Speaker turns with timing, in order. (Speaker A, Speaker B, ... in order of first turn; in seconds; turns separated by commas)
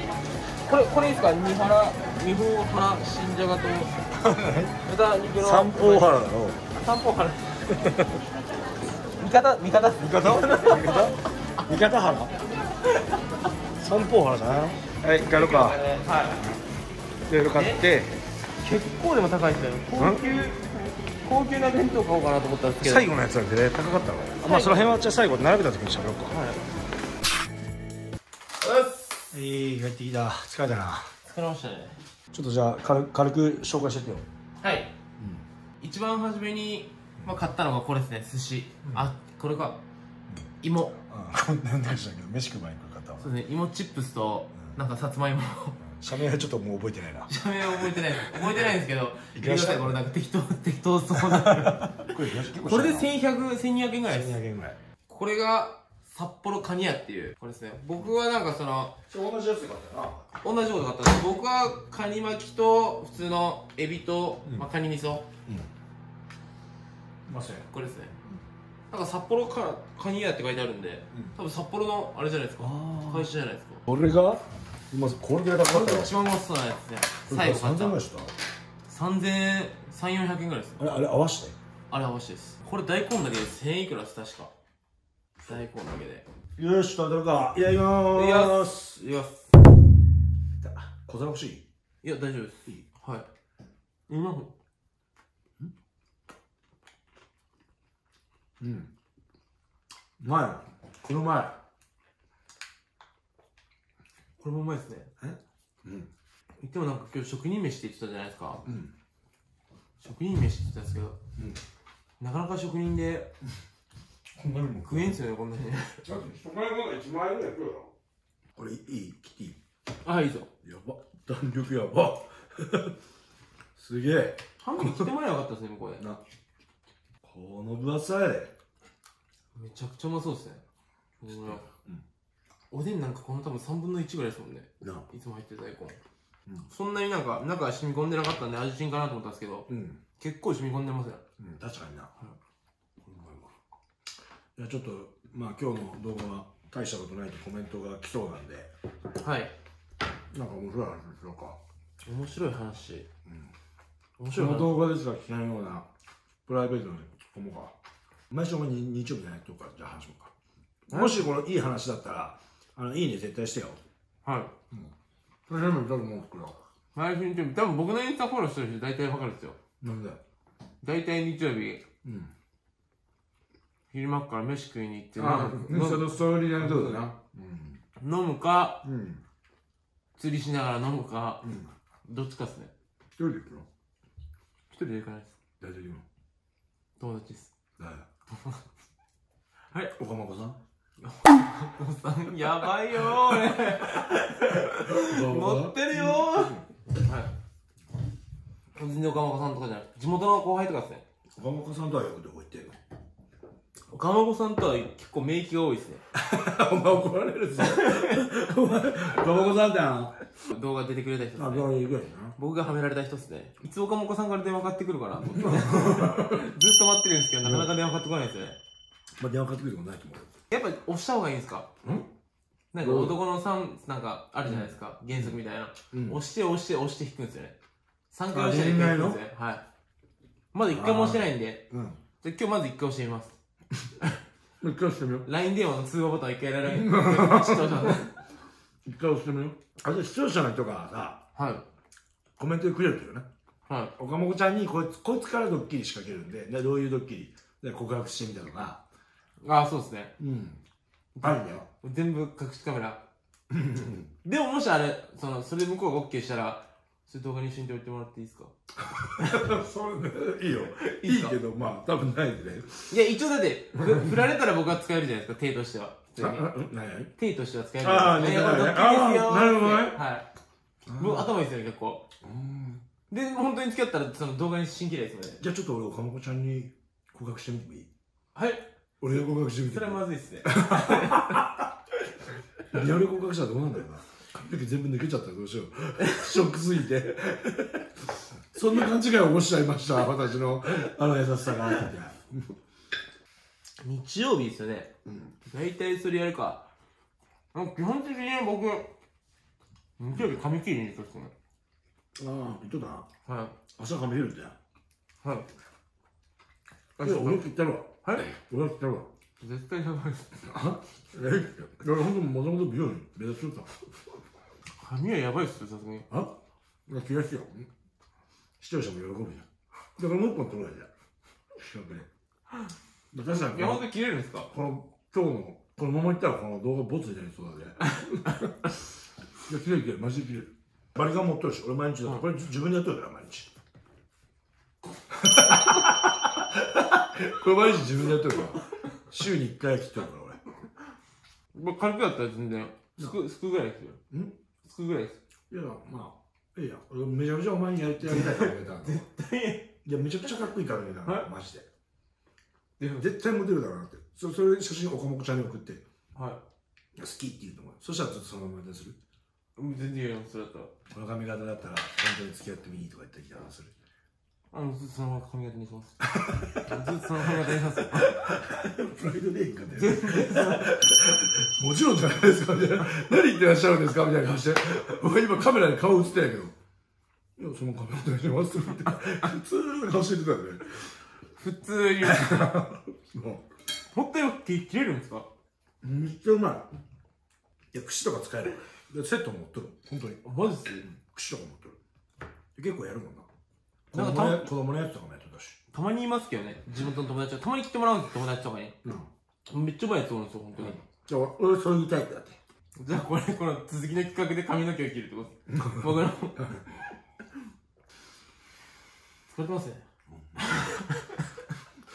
Speaker A: 0.6-3.9, Speaker B: 4.2-4.7, Speaker A: 4.8-7.7, Speaker B: 5.4-6.6, Speaker B: 7.8-8.2, Speaker A: 9.2-11.1, Speaker B: 10.0-12.3, Speaker A: 12.8-13.3, Speaker B: 13.8-15.8, Speaker A: 15.3-16.4, Speaker B: 17.3-18.2, Speaker A: 17.5-17.8, Speaker A: 18.6-23.2, Speaker B: 22.8-26.4, Speaker A: 24.4-25.1, Speaker A: 26.3-26.7, Speaker A: 28.6-29.3, Speaker B: 29.3-31.1, Speaker A: 31.2-32.0, Speaker B: 32.3-34.2, Speaker A: 34.6-34.9, Speaker B: 35.2-35.4, Speaker A: 35.8-39.8, Speaker B: 38.8-39.1, Speaker A: 40.6-41.0, Speaker B: 41.0-43.3, Speaker A: 43.2-45.8, Speaker B: 45.9-48.7, Speaker A: 47.3-54.4, Speaker B: 49.3-50.0, Speaker B: 51.2-53.1, Speaker B: 54.0-54.8, Speaker A: 55.1-58.9, Speaker B: 59.1-60.3, Speaker A: 60.4-65.2, Speaker B: 67.3-67.7, Speaker A: 67.7-68.1, Speaker A: 68.9-73.8, Speaker B: 72.6-73.3, Speaker B: 73.9-76.1, Speaker A: 75.6-78.0, Speaker B: 77.3-78.3, Speaker A: 78.9-80.8, Speaker B: 80.8-81.5, Speaker A: 81.9-84.5, Speaker A: 85.4-86.2, Speaker B: 86.5-88.9, Speaker A: 88.1-89.6, Speaker B: 90.6-91.6, Speaker A: 92.0-93.3, Speaker A: 94.1-94.5, Speaker B: 98.6-98.9, Speaker B: 100.2-101.6, Speaker A: 104.4-105.1, Speaker B: 105.2-106.1, Speaker A: 106.6-108.7, Speaker B: 108.7-108.9, Speaker A: 110.0-111.2, Speaker A: 112.2-113.3, Speaker B: 114.4-115.1, Speaker A: 114.8-116.0, Speaker B: 116.0-117.9, Speaker B: 118.5-119.6, Speaker A: 120.0-120.5, Speaker B: 120.6-123.0, Speaker B: 123.8-125.1, Speaker A: 124.6-126.0, Speaker B: 127.2-128.5, Speaker A: 129.5-130.6, Speaker A: 131.2-131.7, Speaker B: 131.3-132.0, Speaker A: 132.7-136.0, Speaker B: 134.8-135.1, Speaker A: 136.7-141.2, Speaker B: 139.7-140.0, Speaker B: 141.4-142.1, Speaker B: 143.0-143.5, Speaker B: 144.6-148.7, Speaker A: 149.2-149.5, Speaker B: 150.3-151.6, Speaker A: 152.0-153.1, Speaker B: 153.2-153.5, Speaker A: 154.2-154.7, Speaker B: 154.3-155.9, Speaker B: 156.4-157.7, Speaker B: 158.3-160.3, Speaker B: 160.9-163.8, Speaker A: 160.9-161.3, Speaker A: 164.2-164.5, Speaker B: 165.5-166.6, Speaker A: 166.9-169.6, Speaker B: 169.8-170.2, Speaker A: 170.8-171.8, Speaker B: 172.0-172.3, Speaker A: 173.9-177.1, Speaker B: 175.1-177.8, Speaker A: 178.0-178.8, Speaker B: 178.8-179.2, Speaker A: 180.2-181.5, Speaker B: 181.4-181.7, Speaker A: 182.0-182.7, Speaker B: 183.2-183.7, Speaker A: 184.7-185.3, Speaker B: 185.6-186.0, Speaker A: 187.0-187.5, Speaker B: 187.8-188.1, Speaker A: 188.3-188.6, Speaker B: 189.9-190.6, Speaker A: 191.0-197.3, Speaker B: 194.6-196.6, Speaker A: 198.7-201.0, Speaker B: 201.3-202.8, Speaker A: 203.9-206.0, Speaker B: 206.1-210.2, Speaker A: 207.6-208.3, Speaker A: 210.4-211.7, Speaker B: 211.3-212.3, Speaker A: 212.3-218.6, Speaker B: 215.3-216.4, Speaker B: 217.4-217.7, Speaker B: 219.2-220.3, Speaker A: 220.5-221.7, Speaker B: 221.8-222.1, Speaker A: 222.7-227.6, Speaker B: 222.8-223.2, Speaker B: 224.4-225.4, Speaker B: 225.9-226.2, Speaker A: 228.1-229.6, Speaker B: 228.3-229.2, Speaker A: 230.5-231.7, Speaker B: 230.6-232.0, Speaker A: 232.2-233.3, Speaker B: 234.6-235.2, Speaker A: 235.2-238.1, Speaker B: 236.6-238.1, Speaker B: 238.8-241.2, Speaker A: 241.3-241.6, Speaker B: 242.4-243.3, Speaker A: 243.7-243.9, Speaker B: 244.0-248.8, Speaker A: 249.4-250.1, Speaker B: 250.2-250.6, Speaker A: 251.2-253.0, Speaker B: 251.2-251.7, Speaker B: 253.5-254.1, Speaker A: 254.2-258.5, Speaker B: 258.8-263.0, Speaker A: 260.8-261.3, Speaker A: 262.9-266.5, Speaker B: 263.8-264.1, Speaker B: 266.2-267.1, Speaker A: 267.2-270.3, Speaker B: 267.8-270.0, Speaker B: 270.9-271.3, Speaker A: 270.9-272.1, Speaker B: 272.2-272.8, Speaker A: 273.1-275.4, Speaker B: 275.4-277.9, Speaker A: 278.3-278.6, Speaker B: 279.0-281.6, Speaker A: 279.6-281.5, Speaker B: 282.7-287.8, Speaker A: 286.0-286.4, Speaker B: 288.5-292.5, Speaker A: 293.8-296.7, Speaker B: 295.0-295.3, Speaker A: 297.5-298.9, Speaker A: 300.0-301.3, Speaker B: 302.2-303.1, Speaker A: 303.2-303.6, Speaker B: 303.7-304.6, Speaker A: 305.2-305.5, Speaker A: 307.0-307.4, Speaker B: 307.0-309.1, Speaker A: 308.0-308.3, Speaker A: 309.4-310.4, Speaker B: 310.4-314.2, Speaker A: 314.8-316.1, Speaker B: 316.9-317.7, Speaker B: 318.6-320.9, Speaker B: 321.5-322.1, Speaker B: 323.1-323.8, Speaker A: 323.3-324.5, Speaker B: 324.5-328.6, Speaker B: 329.5-333.5, Speaker B: 335.1-340.4, Speaker A: 341.5-344.0, Speaker B: 344.1-344.4, Speaker A: 344.6-345.2, Speaker B: 345.5-349.0, Speaker A: 348.1-349.7, Speaker B: 349.8-351.6, Speaker A: 352.8-353.1, Speaker B: 353.0-355.8, Speaker A: 356.1-356.4, Speaker B: 356.9-359.0, Speaker A: 359.6-360.7, Speaker B: 360.9-363.7, Speaker A: 364.5-366.0, Speaker B: 366.1-376.5, Speaker A: 366.6-368.4, Speaker A: 369.7-370.7, Speaker B: 377.4-380.9, Speaker A: 381.4-382.5, Speaker B: 382.0-383.4, Speaker A: 383.9-385.3, Speaker B: 385.8-386.7, Speaker B: 387.7-390.2, Speaker A: 390.2-390.9, Speaker B: 390.8-391.8, Speaker B: 392.5-393.3, Speaker B: 393.9-395.6, Speaker A: 393.9-394.5, Speaker A: 395.7-398.8, Speaker A: 399.5-400.8, Speaker B: 400.6-402.4, Speaker A: 402.8-406.6, Speaker B: 405.5-405.9, Speaker A: 409.3-409.8, Speaker B: 410.1-410.7, Speaker A: 410.4-411.3